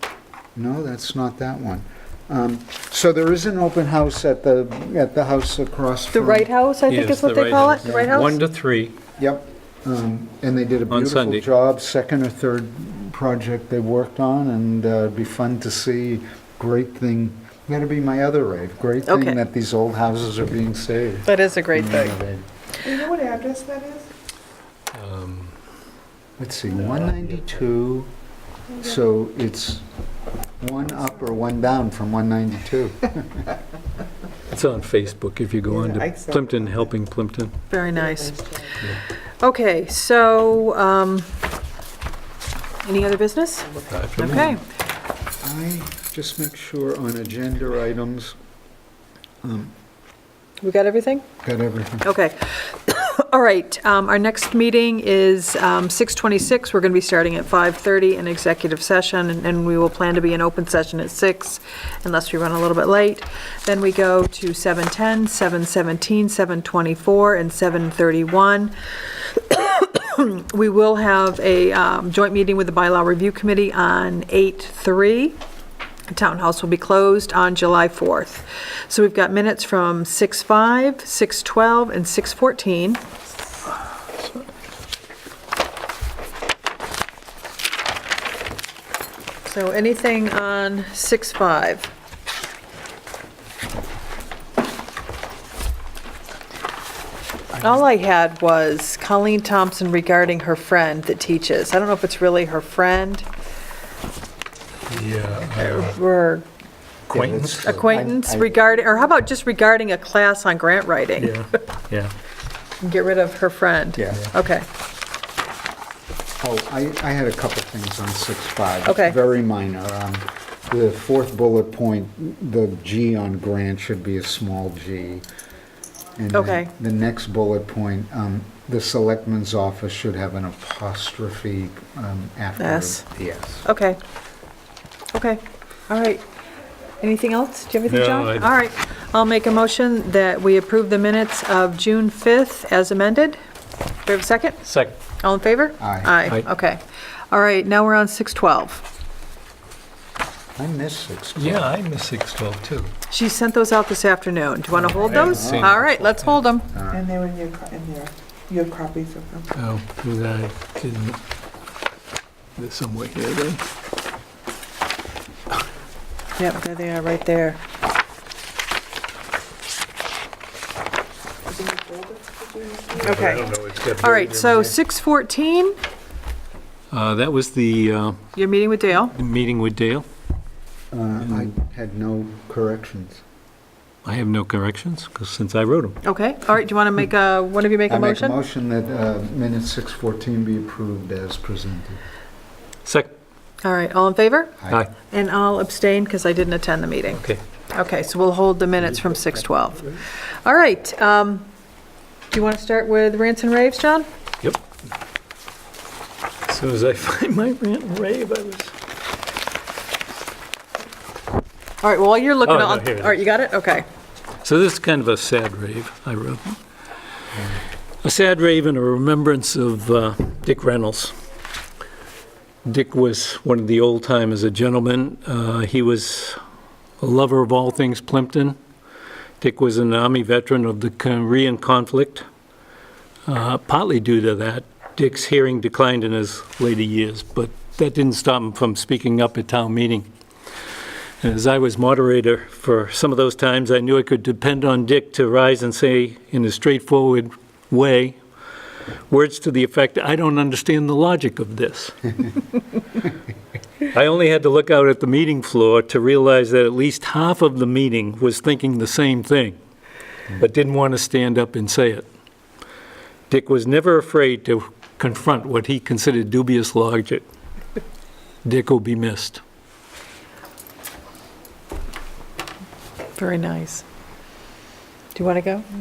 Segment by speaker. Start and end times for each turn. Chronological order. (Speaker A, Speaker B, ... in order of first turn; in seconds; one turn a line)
Speaker A: 0.6-6.5
Speaker B: 6.1-8.4
Speaker C: 6.9-9.0
Speaker A: 7.8-8.3
Speaker A: 9.2-22.5
Speaker C: 10.9-11.4
Speaker B: 19.1-19.4
Speaker B: 21.2-22.2
Speaker D: 22.8-24.1
Speaker C: 24.9-25.6
Speaker A: 26.4-28.1
Speaker C: 26.8-27.3
Speaker A: 28.7-29.9
Speaker A: 30.6-33.5
Speaker C: 34.5-37.6
Speaker D: 35.8-36.5
Speaker B: 37.7-41.3
Speaker D: 38.0-38.8
Speaker B: 42.8-44.6
Speaker C: 43.9-44.5
Speaker A: 45.4-48.4
Speaker A: 49.4-49.7
Speaker B: 50.6-51.2
Speaker A: 51.4-52.1
Speaker B: 52.0-75.4
Speaker B: 76.1-83.0
Speaker B: 89.5-91.9
Speaker B: 97.6-103.2
Speaker C: 104.9-106.0
Speaker B: 105.5-106.5
Speaker A: 107.1-108.7
Speaker C: 107.1-107.8
Speaker B: 107.6-111.5
Speaker C: 111.2-112.1
Speaker B: 112.8-114.7
Speaker A: 114.0-114.3
Speaker A: 116.4-125.2
Speaker B: 118.8-119.2
Speaker A: 126.2-133.7
Speaker B: 126.3-126.7
Speaker B: 132.6-133.0
Speaker B: 133.6-134.0
Speaker B: 135.1-136.2
Speaker B: 137.0-143.4
Speaker C: 137.9-138.6
Speaker B: 144.1-144.6
Speaker C: 144.7-144.9
Speaker B: 145.2-148.9
Speaker A: 145.8-146.2
Speaker A: 150.6-151.7
Speaker C: 151.4-152.9
Speaker B: 153.1-156.7
Speaker A: 154.8-155.8
Speaker C: 154.9-156.4
Speaker A: 156.7-157.1
Speaker D: 156.9-159.5
Speaker C: 159.6-161.2
Speaker C: 162.6-163.6
Speaker B: 166.4-167.6
Speaker D: 171.5-173.2
Speaker C: 173.0-174.8
Speaker B: 173.0-175.8
Speaker C: 176.9-178.3
Speaker B: 178.3-179.1
Speaker C: 179.1-180.1
Speaker A: 180.9-183.2
Speaker C: 184.1-186.0
Speaker B: 186.0-188.4
Speaker A: 187.9-192.0
Speaker C: 192.8-193.1
Speaker B: 193.6-194.6
Speaker A: 194.6-194.9
Speaker B: 195.1-201.5
Speaker C: 197.1-197.4
Speaker B: 202.3-204.1
Speaker C: 206.5-208.7
Speaker B: 211.8-213.8
Speaker C: 212.4-213.1
Speaker C: 214.4-216.6
Speaker C: 218.0-221.2
Speaker C: 222.7-226.4
Speaker C: 227.0-228.6
Speaker C: 229.4-232.3
Speaker C: 233.3-240.1
Speaker C: 241.2-248.2
Speaker C: 249.1-252.3
Speaker C: 253.9-259.6
Speaker C: 260.3-262.1
Speaker C: 263.3-267.2
Speaker C: 268.4-269.4
Speaker B: 273.2-273.9
Speaker B: 275.1-275.6